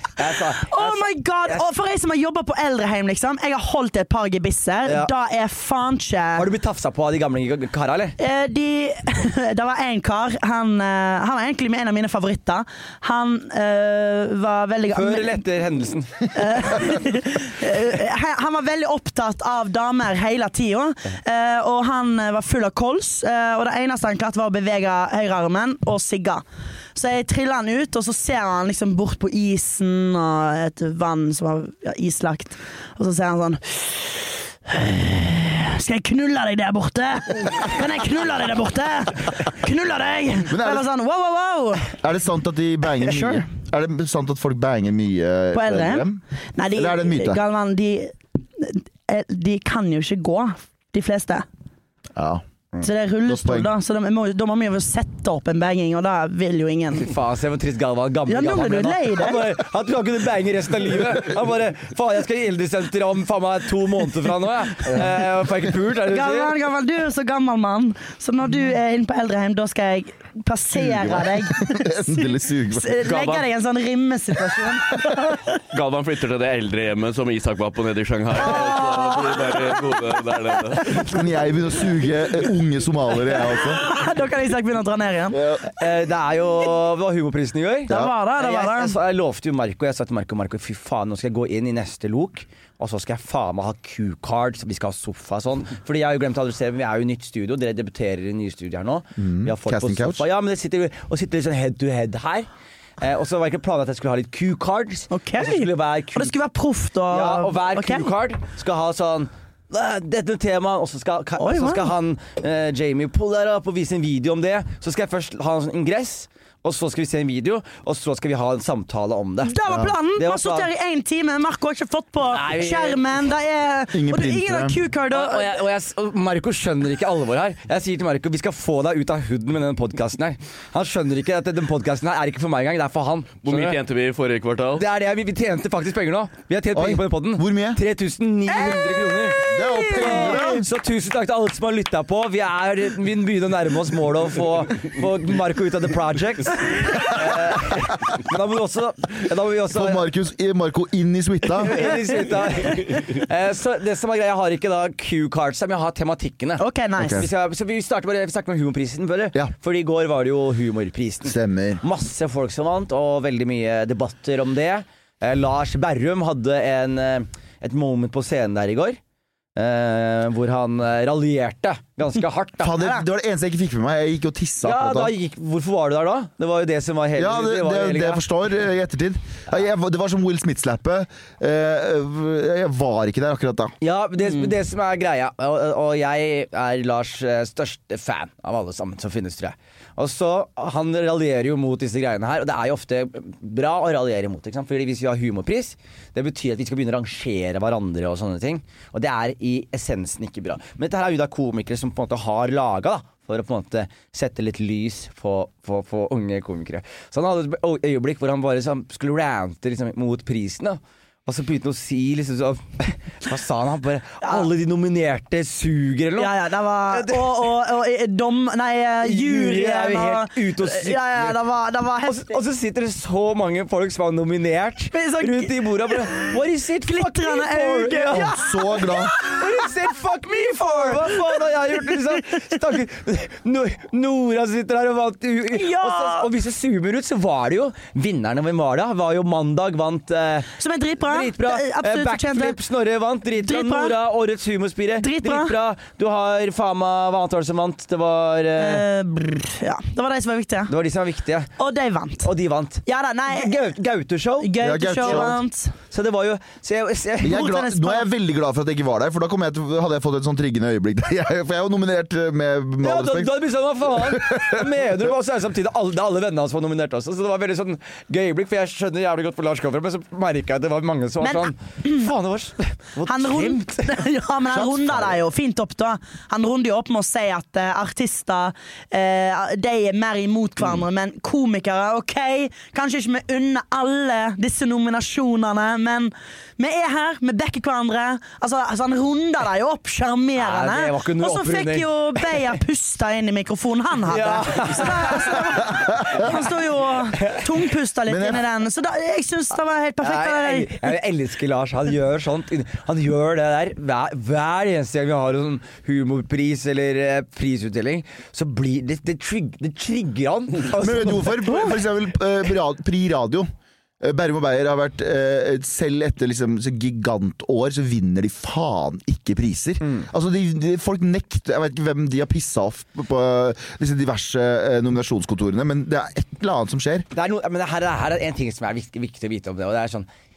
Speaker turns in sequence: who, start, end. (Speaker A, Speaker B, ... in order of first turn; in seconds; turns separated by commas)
Speaker A: 0.2-1.6, Speaker B: 0.6-6.5, Speaker A: 4.8-5.1, Speaker A: 6.4-8.2, Speaker B: 8.2-15.4, Speaker A: 14.9-16.3, Speaker B: 16.3-26.4, Speaker B: 26.9-41.9, Speaker C: 40.5-40.9, Speaker C: 42.0-46.2, Speaker B: 43.0-43.4, Speaker B: 45.5-51.5, Speaker C: 46.7-47.4, Speaker C: 52.1-52.4, Speaker B: 52.8-57.1, Speaker C: 53.2-53.7, Speaker A: 56.9-66.5, Speaker B: 58.3-59.5, Speaker B: 66.1-75.6, Speaker C: 70.7-73.0, Speaker A: 73.1-73.4, Speaker D: 75.7-81.0, Speaker B: 78.4-79.7, Speaker C: 81.0-83.8, Speaker B: 83.5-85.4, Speaker C: 85.3-85.6, Speaker A: 85.7-102.5, Speaker B: 87.9-89.0, Speaker C: 99.2-100.2, Speaker A: 103.0-106.3, Speaker B: 105.1-108.1, Speaker A: 107.1-119.5, Speaker B: 111.4-111.9, Speaker B: 119.4-125.6, Speaker C: 119.7-119.9, Speaker A: 120.1-120.7, Speaker A: 122.3-123.0, Speaker C: 123.9-124.8, Speaker A: 125.1-133.8, Speaker D: 133.4-134.8, Speaker A: 134.8-150.0, Speaker C: 136.7-137.8, Speaker B: 138.5-140.6, Speaker C: 139.4-140.7, Speaker C: 149.7-151.9, Speaker A: 151.6-169.0, Speaker B: 156.6-157.3, Speaker C: 157.0-157.3, Speaker C: 161.2-161.8, Speaker A: 169.6-172.8, Speaker C: 172.6-175.1, Speaker A: 174.6-178.2, Speaker C: 177.2-183.7, Speaker A: 183.8-216.3, Speaker B: 216.2-222.4, Speaker A: 216.8-217.4, Speaker A: 219.0-221.4, Speaker A: 222.0-228.3, Speaker B: 224.9-226.3, Speaker B: 226.8-229.7, Speaker C: 228.1-229.1, Speaker A: 229.2-248.8, Speaker B: 230.3-232.0, Speaker B: 235.5-236.3, Speaker B: 240.6-242.6, Speaker B: 243.4-243.9, Speaker B: 245.0-245.5, Speaker B: 248.6-250.7, Speaker A: 250.7-251.5, Speaker B: 251.6-252.3, Speaker A: 252.2-257.4, Speaker B: 252.8-253.6, Speaker B: 254.4-255.7, Speaker C: 254.6-255.4, Speaker C: 257.2-263.4, Speaker B: 257.2-258.1, Speaker A: 262.8-274.0, Speaker C: 263.9-265.1, Speaker B: 271.2-272.1, Speaker B: 273.1-300.9, Speaker C: 274.6-275.0, Speaker A: 290.4-292.5, Speaker A: 294.1-296.3, Speaker C: 295.7-296.2, Speaker C: 298.1-298.4, Speaker A: 300.0-311.7, Speaker C: 310.7-313.5, Speaker C: 314.0-327.1, Speaker A: 327.1-330.1